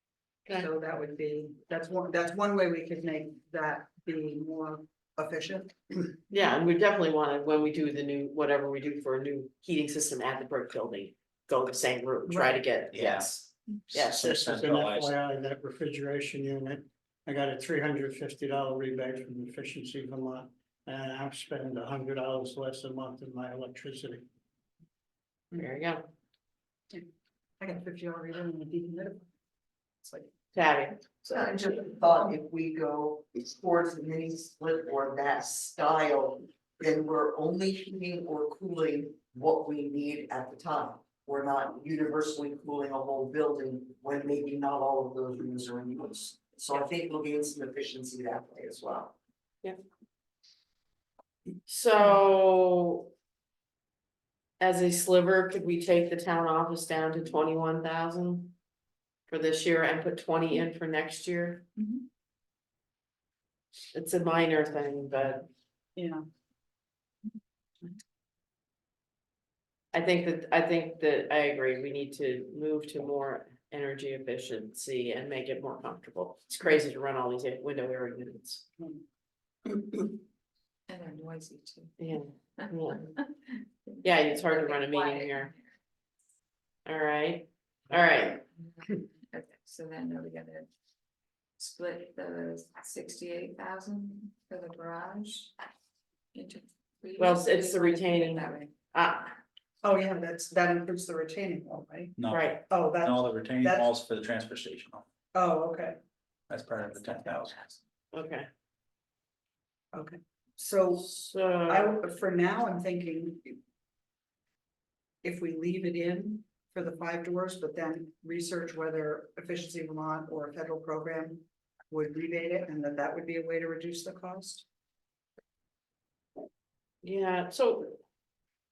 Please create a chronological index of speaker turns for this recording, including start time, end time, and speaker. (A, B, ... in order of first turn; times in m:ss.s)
0:00.5-0:06.2 A
0:06.3-0:14.5 B
0:12.3-0:12.6 A
0:12.9-0:15.1 C
0:14.2-0:24.2 D
0:25.6-0:26.0 B
0:27.6-0:29.3 A
0:30.0-0:30.3 A
0:30.5-0:31.0 B
0:31.3-0:49.1 E
0:51.7-0:53.1 B
0:54.6-0:58.5 B
0:59.3-1:01.6 B
1:03.9-1:05.5 B
1:06.0-1:06.2 A
1:09.9-1:18.6 B
1:19.7-1:20.1 A
1:20.9-1:21.9 F
1:22.0-1:23.1 B
1:22.6-1:25.6 F
1:24.0-1:25.5 B
1:26.8-1:28.4 B
1:28.9-1:30.7 F
1:31.6-1:35.5 F
1:36.3-1:38.7 F
1:37.2-1:39.4 B
1:39.8-1:42.1 A
1:42.2-1:45.0 C
1:42.3-1:42.6 B
1:42.7-1:43.9 A
1:45.3-1:46.0 A
1:46.5-1:47.7 C
1:48.1-1:48.5 B
1:49.9-1:51.1 A
1:51.0-1:51.9 B
1:51.7-1:53.6 A
1:55.2-2:04.6 A
2:07.0-2:08.0 B